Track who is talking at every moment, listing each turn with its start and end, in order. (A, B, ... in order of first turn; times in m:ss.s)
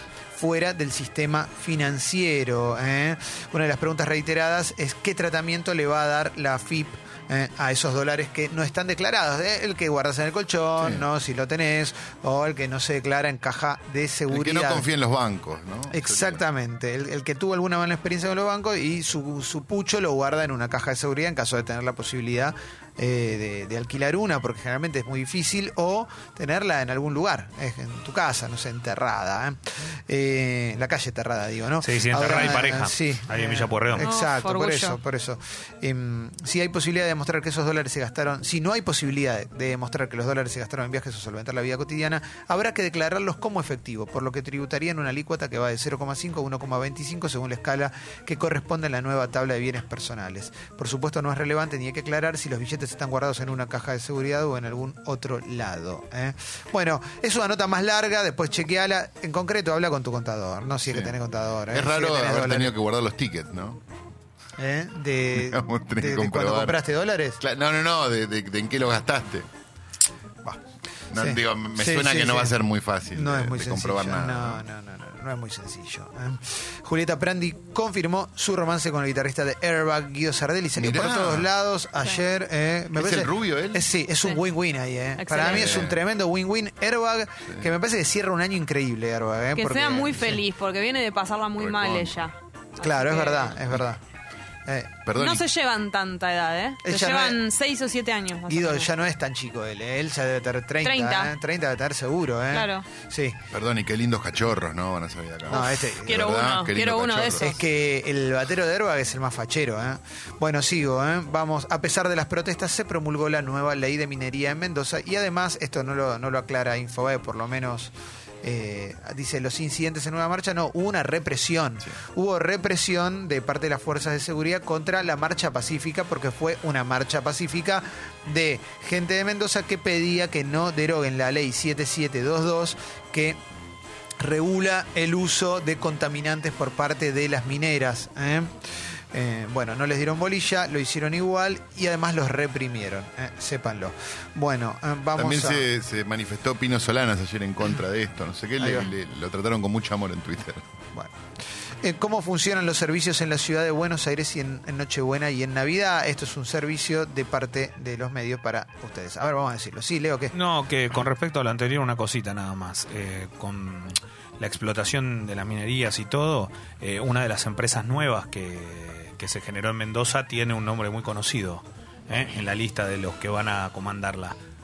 0:00.3-0:14.8 A
0:10.8-0:11.1 B
0:14.3-0:16.4 B
0:15.9-1:02.7 A
0:31.8-0:34.1 C
0:34.0-0:35.0 D
1:00.8-1:01.1 B
1:01.7-1:03.8 B
1:04.6-1:07.4 A
1:05.3-1:06.8 B
1:07.4-1:09.5 B
1:11.1-1:14.6 B
1:11.1-1:12.5 A
1:13.1-1:30.4 A
1:20.8-1:21.5 B
1:22.9-1:23.9 B
1:25.2-1:25.9 D
1:25.4-1:26.0 B
1:29.6-1:33.6 D
1:31.6-1:32.3 B
1:32.8-1:34.0 A
1:34.6-1:34.9 A
1:35.0-1:35.4 B
1:35.2-1:38.9 D
1:36.8-1:37.4 A
1:38.5-1:43.4 A
1:40.8-1:41.3 D
1:42.5-1:42.8 D
1:43.5-1:47.5 B
1:45.5-1:46.2 A
1:45.5-1:47.6 D
1:47.4-2:13.4 A
2:14.2-2:18.6 A
2:19.1-2:25.6 A
2:25.1-2:30.6 B
2:28.6-2:28.9 A
2:31.8-2:40.3 A
2:40.3-2:54.4 C